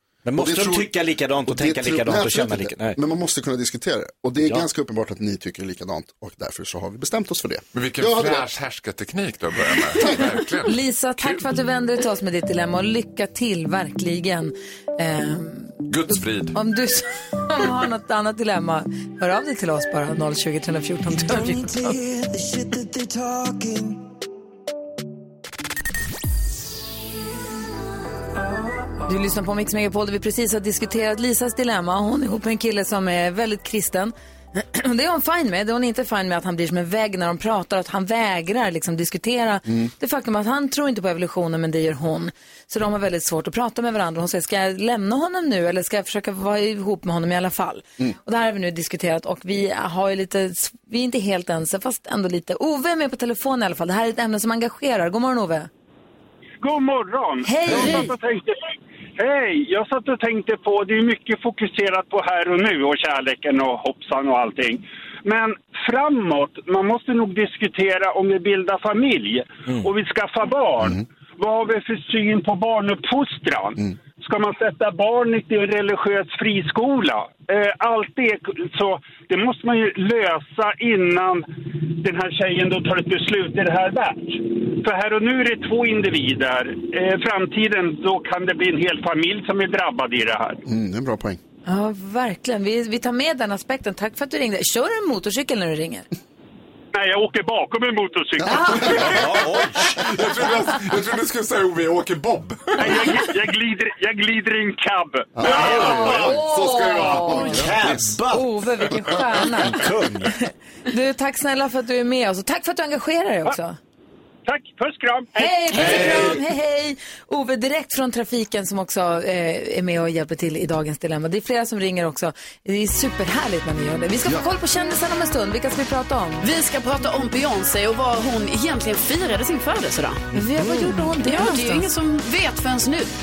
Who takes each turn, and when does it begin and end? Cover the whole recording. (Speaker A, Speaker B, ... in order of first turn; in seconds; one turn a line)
Speaker A: 0.2-3.0
Speaker B: 0.4-0.9
Speaker B: 1.5-8.5
Speaker C: 7.7-11.4
Speaker D: 10.6-22.0
Speaker C: 15.9-16.6
Speaker D: 29.1-55.7
Speaker E: 56.6-58.6
Speaker D: 57.4-58.1
Speaker B: 57.7-58.0
Speaker E: 59.2-90.6
Speaker B: 90.7-91.4
Speaker D: 91.7-96.1
Speaker E: 96.9-98.7
Speaker D: 98.5-99.0
Speaker B: 98.6-99.1
Speaker C: 98.9-103.2
Speaker A: 98.9-100.0
Speaker E: 102.8-105.5
Speaker B: 105.4-106.3
Speaker C: 105.4-107.7
Speaker D: 105.4-107.6
Speaker B: 107.3-108.0
Speaker A: 107.4-108.5
Speaker D: 108.3-113.8
Speaker A: 109.6-110.3
Speaker E: 114.5-116.3
Speaker D: 115.4-126.5
Speaker A: 115.7-116.4
Speaker F: 126.4-130.3
Speaker D: 130.3-131.9
Speaker A: 130.4-130.9
Speaker F: 131.2-133.1